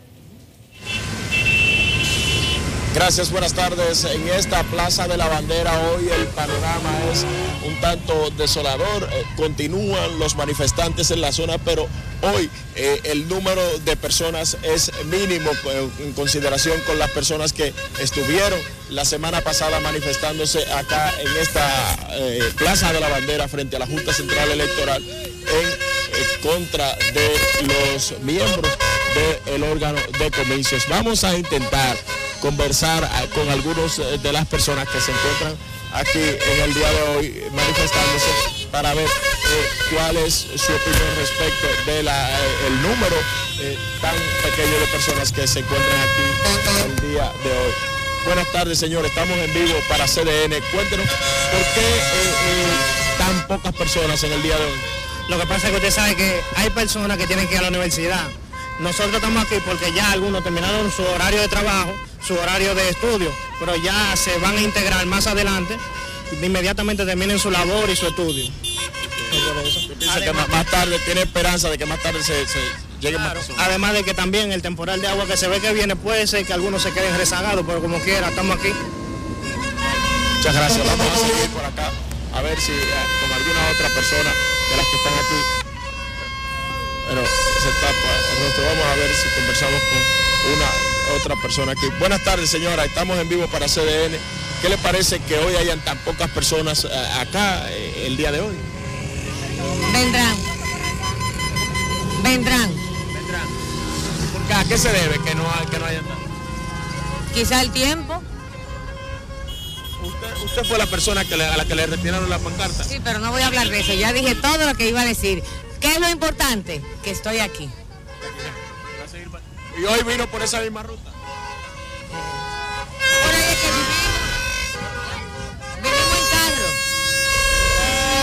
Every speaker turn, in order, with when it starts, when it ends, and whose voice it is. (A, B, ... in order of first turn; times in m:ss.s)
0:02.9-0:54.9 A
0:55.3-1:08.6 B
1:09.0-1:13.7 A
1:09.3-1:10.5 B
1:13.3-1:18.8 B
1:20.4-1:25.5 A
1:27.0-1:38.6 A
1:39.8-1:40.5 C
1:42.2-1:42.8 C
1:43.1-1:43.5 A
1:44.3-1:46.2 A
1:47.3-1:48.2 C
1:50.0-1:52.9 A
1:52.8-1:57.8 C
1:58.2-2:01.2 A
2:02.1-2:02.5 C
2:03.2-2:04.3 C
2:05.7-2:06.8 C